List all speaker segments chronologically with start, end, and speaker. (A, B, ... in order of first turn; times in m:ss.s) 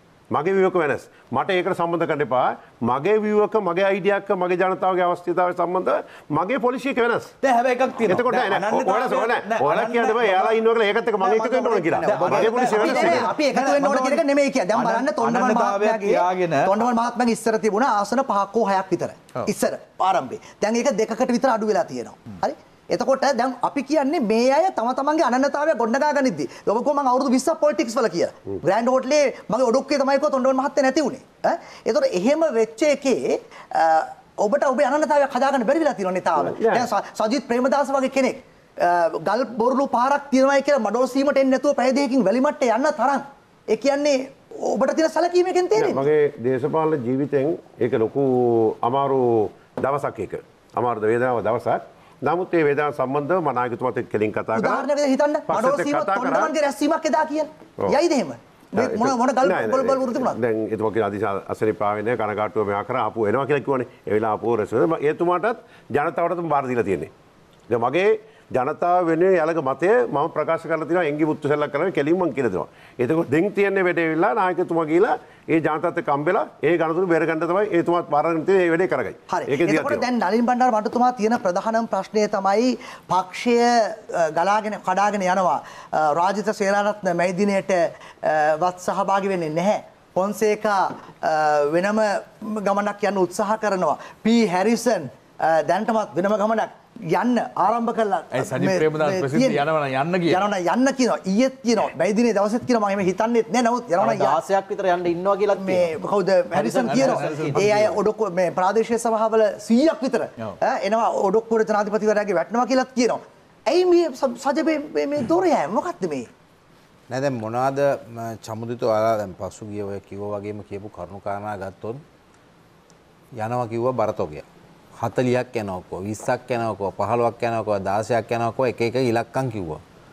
0:00.3-0:07.4 A
0:07.4-0:10.6 B
0:08.0-0:13.3 A
0:11.2-0:16.8 B
0:12.1-0:46.0 C
0:36.4-0:36.9 A
0:45.8-0:54.9 A
0:54.6-1:00.4 C
0:55.5-0:56.5 A
0:58.8-1:07.1 A
1:07.7-1:20.0 A
1:19.3-1:39.6 C
1:38.3-1:40.5 B
1:40.3-1:44.4 C
1:44.0-1:45.9 D
1:45.6-1:56.3 C
1:46.6-1:47.6 D
1:46.7-1:48.0 B
1:57.1-2:02.0 E
2:03.4-2:04.4 E
2:05.0-2:09.8 E